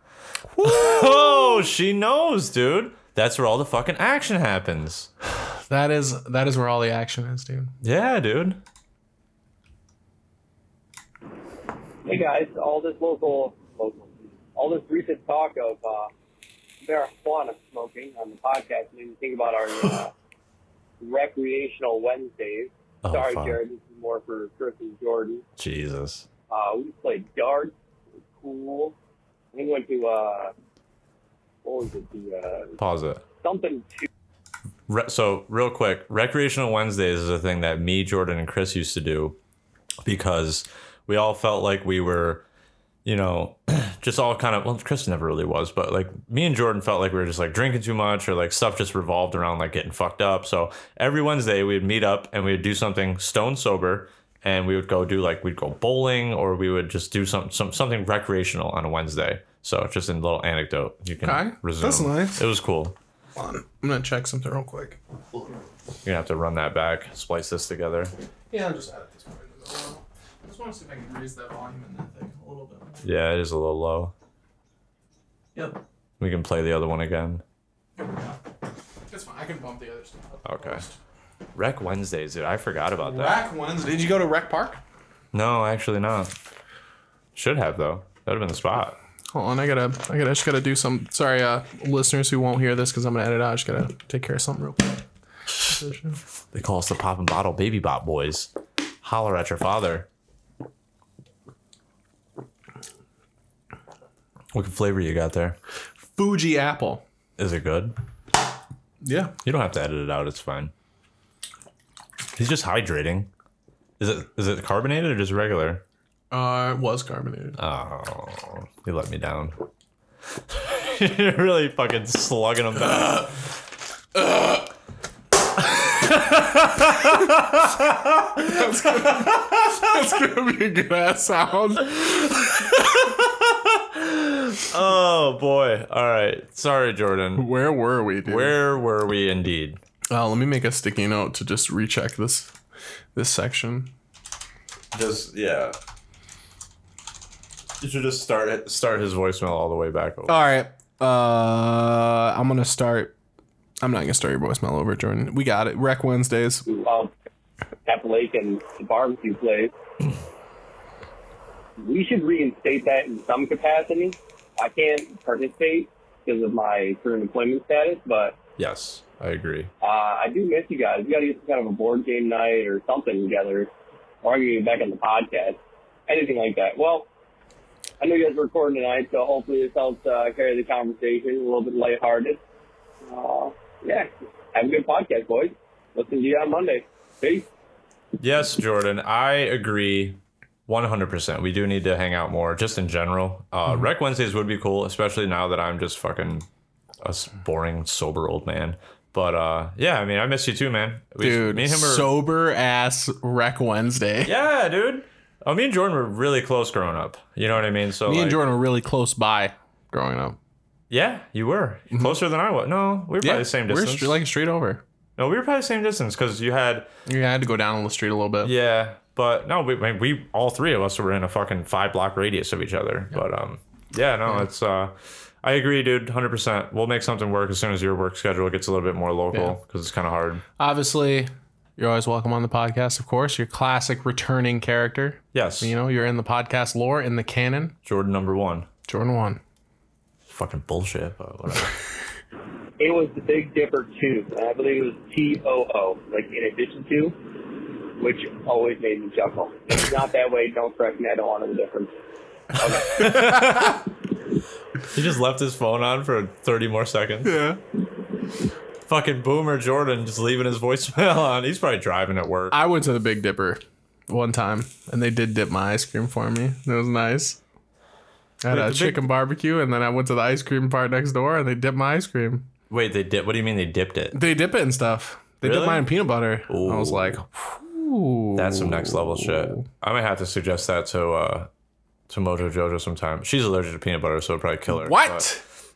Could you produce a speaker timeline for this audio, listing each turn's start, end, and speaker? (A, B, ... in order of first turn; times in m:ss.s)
0:00.5-0:01.6 A
0:00.6-0:05.1 B
0:05.7-0:07.7 A
0:07.8-0:08.6 B
0:12.0-0:16.1 C
0:16.8-0:20.1 C
0:21.0-0:25.4 C
0:23.0-0:23.6 B
0:25.6-0:26.3 B
0:26.5-0:27.7 C
0:28.4-0:28.9 C
0:29.5-0:30.5 C
0:31.6-0:32.7 C
0:32.8-0:33.2 B
0:33.4-0:34.0 C
0:34.9-0:39.4 B
0:40.0-0:42.4 B
0:43.0-1:02.9 B
1:01.2-1:02.4 A
1:03.3-1:05.0 A
1:06.0-1:08.1 B
1:08.5-1:13.0 A
1:13.0-1:14.1 B
1:16.2-1:17.4 B
1:18.0-1:18.4 A
1:19.1-1:21.0 A
1:20.4-1:20.8 B
1:21.5-1:23.4 B
1:23.0-1:24.8 A
1:25.3-1:26.3 B
1:27.3-1:29.0 B
1:29.3-1:35.0 A
1:35.6-1:36.2 A
1:36.5-1:38.5 B
1:39.0-1:40.1 B
1:44.5-1:45.6 B
1:46.2-1:47.0 A
1:47.4-1:47.9 B
1:49.0-1:49.3 A
1:49.4-1:50.7 B
1:52.4-1:53.3 B
1:54.0-1:55.8 B
1:56.3-1:57.6 A
1:57.6-1:59.5 B
2:00.5-2:03.3 B
2:04.1-2:04.7 A
2:05.8-2:08.7 B
2:08.4-2:12.8 A
2:12.4-2:17.5 B
2:17.4-2:18.6 A
2:18.2-2:19.8 B
2:20.1-2:22.5 A
2:23.1-2:23.9 A
2:24.9-2:25.8 B
2:27.8-2:30.4 B
2:30.3-2:33.1 A
2:33.8-2:36.6 A
2:36.7-2:37.1 C
2:37.8-2:39.7 C
2:41.8-2:48.4 C
2:48.6-2:49.7 B
2:49.8-2:53.7 C
2:54.2-2:57.1 C
2:58.0-3:02.4 C
3:03.0-3:07.5 C
3:08.2-3:16.4 B
3:17.0-3:22.1 B
3:21.2-3:24.3 A
3:24.2-3:28.4 B
3:28.0-3:30.4 A
3:30.9-3:34.2 B
3:31.9-3:32.2 A
3:33.2-3:34.8 A
3:35.2-3:36.9 B
3:37.0-3:38.5 A
3:38.4-3:50.4 B
3:50.6-3:57.8 A
3:55.3-3:55.7 B
3:57.8-3:58.7 B
3:58.9-3:59.4 A
4:00.3-4:01.7 B
4:02.8-4:07.2 C
4:08.0-4:11.9 C
4:12.6-4:13.0 C
4:12.9-4:13.8 B
4:13.0-4:13.6 A
4:14.9-4:17.4 B
4:17.2-4:17.6 A
4:18.9-4:22.6 B
4:22.5-4:27.4 A
4:28.4-4:32.5 A
4:28.5-4:29.0 B
4:32.7-4:34.2 B
4:34.1-4:39.6 A
4:35.4-4:35.9 B
4:36.5-4:37.2 B
4:38.3-4:41.5 B
4:42.1-4:45.2 B
4:44.7-4:45.4 A